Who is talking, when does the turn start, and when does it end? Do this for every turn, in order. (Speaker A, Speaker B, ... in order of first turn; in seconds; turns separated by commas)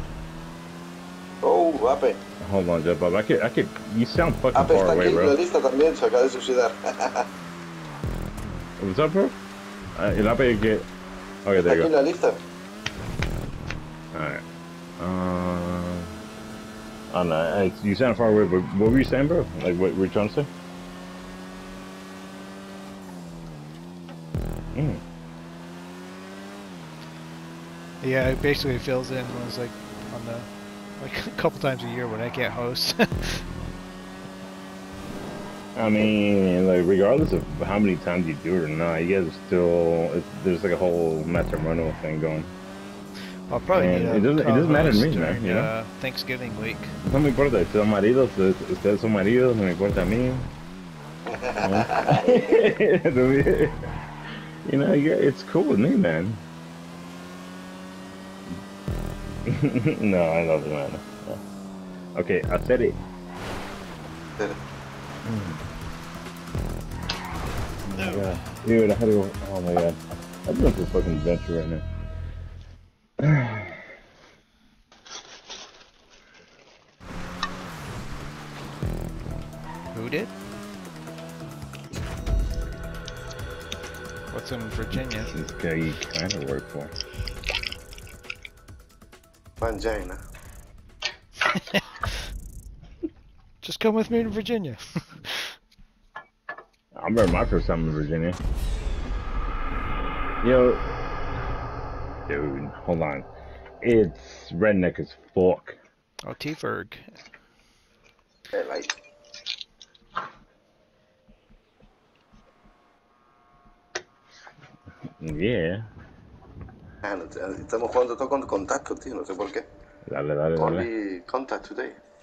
Speaker A: 1.4-2.2, Speaker B: 2.4-5.4, Speaker A: 4.5-7.3, Speaker B: 8.8-9.3, Speaker B: 10.0-10.9, Speaker B: 11.4-11.9, Speaker A: 11.6-12.4, Speaker B: 14.1-14.4, Speaker B: 15.0-16.1, Speaker B: 17.1-20.5, Speaker B: 24.7-25.0, Speaker C: 28.0-33.4, Speaker B: 35.8-42.5, Speaker C: 43.5-46.9, Speaker B: 43.7-45.7, Speaker B: 47.0-50.5, Speaker A: 51.3-52.6, Speaker B: 51.6-53.8, Speaker B: 54.6-56.4, Speaker B: 59.5-61.4, Speaker B: 62.1-63.0, Speaker B: 65.2-65.6, Speaker B: 67.9-71.8, Speaker C: 67.9-68.3, Speaker B: 73.2-73.8, Speaker C: 79.9-80.3, Speaker C: 84.3-85.3, Speaker B: 85.3-86.9, Speaker A: 89.6-90.2, Speaker C: 91.5-91.8, Speaker C: 93.6-95.5, Speaker B: 97.0-98.4, Speaker B: 100.4-100.8, Speaker B: 102.3-103.3, Speaker B: 103.8-105.8, Speaker C: 106.3-107.2, Speaker A: 108.5-108.9, Speaker B: 115.2-115.9, Speaker A: 117.0-119.7, Speaker B: 120.1-120.9, Speaker A: 120.6-122.0